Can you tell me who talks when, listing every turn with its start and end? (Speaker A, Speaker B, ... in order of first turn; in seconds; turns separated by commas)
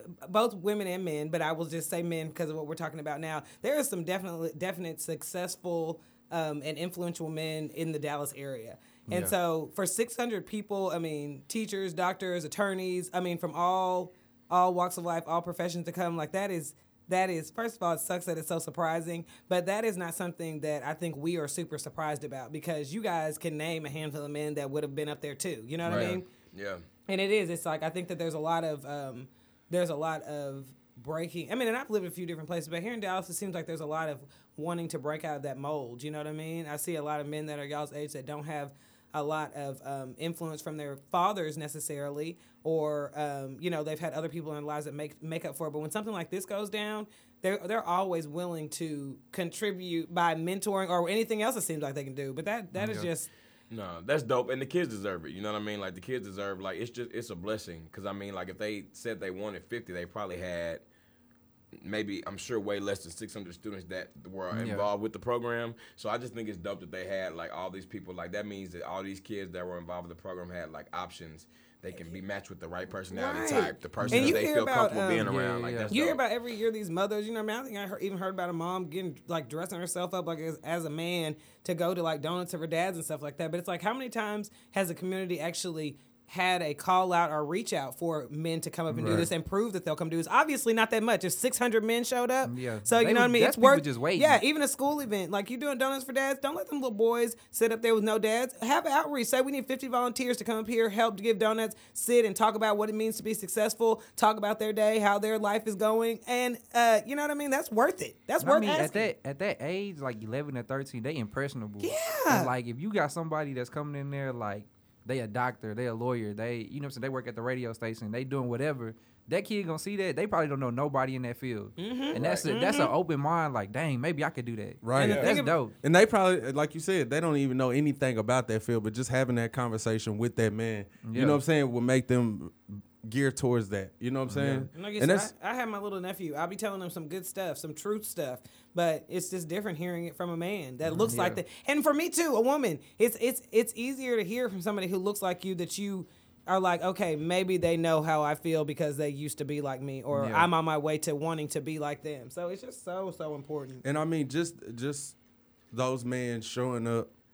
Speaker A: 0.2-26.2, Speaker B: 25.9-26.8, Speaker A: 27.1-53.3, Speaker C: 52.8-53.1, Speaker B: 53.7-60.8, Speaker B: 61.8-76.2, Speaker C: 64.5-64.9, Speaker A: 73.1-75.3, Speaker C: 74.0-74.4, Speaker C: 75.2-75.9, Speaker A: 75.9-109.1, Speaker C: 88.9-89.3, Speaker D: 89.0-89.3, Speaker C: 92.4-94.4, Speaker C: 108.4-125.7, Speaker A: 111.8-112.5, Speaker A: 121.8-122.9, Speaker B: 122.2-122.5, Speaker D: 124.8-135.3, Speaker A: 125.0-125.6, Speaker B: 125.0-125.3, Speaker C: 131.0-131.4, Speaker C: 134.3-134.7, Speaker A: 134.7-153.8, Speaker C: 140.9-141.4, Speaker C: 150.1-150.5, Speaker D: 153.8-155.2, Speaker D: 155.7-157.1